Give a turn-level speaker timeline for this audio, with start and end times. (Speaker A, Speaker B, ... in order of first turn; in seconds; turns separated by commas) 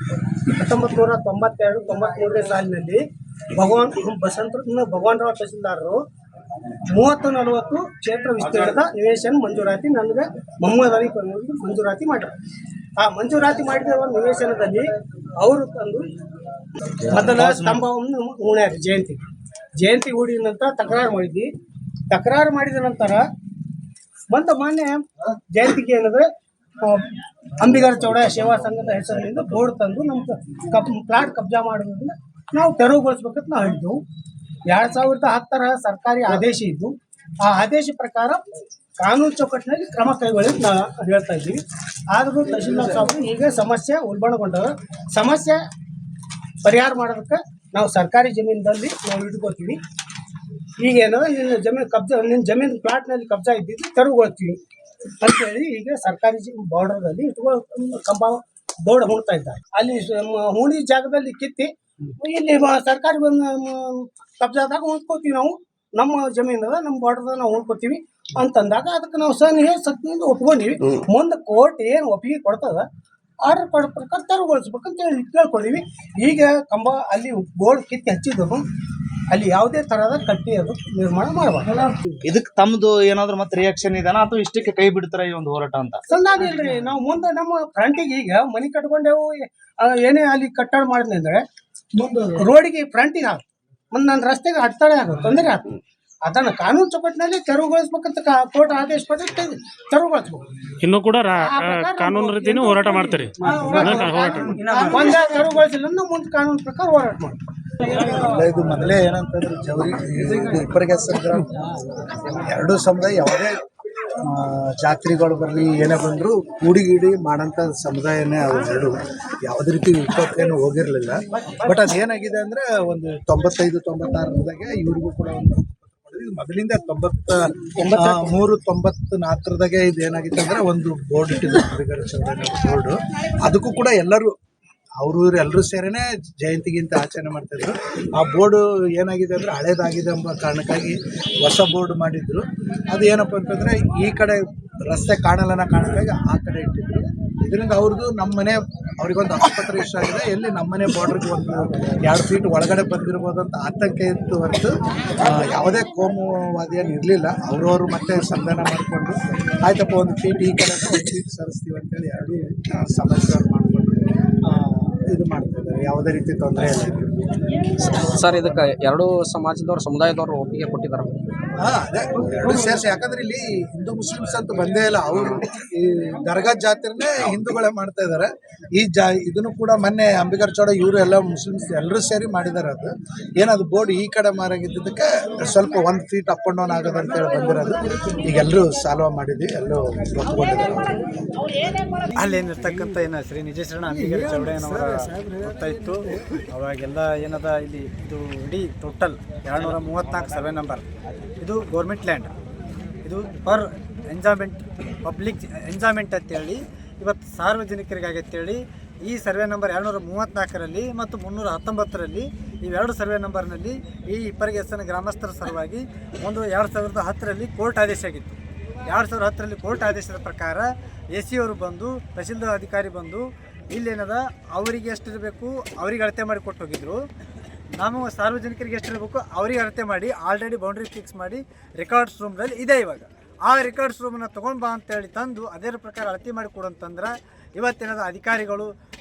Speaker A: 0.5-3.0, Speaker A: 3.6-6.0, Speaker A: 6.9-12.3, Speaker A: 13.0-14.8, Speaker A: 15.4-16.1, Speaker A: 17.1-19.2, Speaker B: 17.1-17.8, Speaker A: 19.8-21.5, Speaker A: 22.1-23.2, Speaker A: 24.3-26.3, Speaker A: 26.8-34.0, Speaker A: 34.7-38.4, Speaker A: 39.0-41.6, Speaker A: 42.1-45.6, Speaker A: 46.6-49.8, Speaker A: 50.8-54.6, Speaker A: 55.2-72.8, Speaker A: 73.4-78.7, Speaker A: 79.3-81.9, Speaker B: 82.2-86.0, Speaker A: 86.1-91.4, Speaker A: 92.0-100.5, Speaker C: 100.8-104.6, Speaker A: 101.4-107.4, Speaker D: 107.9-111.6, Speaker D: 112.2-113.6, Speaker D: 114.2-134.3, Speaker A: 127.8-128.4, Speaker D: 135.0-167.3, Speaker E: 167.8-171.2, Speaker D: 171.6-191.2, Speaker F: 192.2-200.8, Speaker F: 201.4-202.3, Speaker F: 203.1-227.0, Speaker F: 227.8-238.7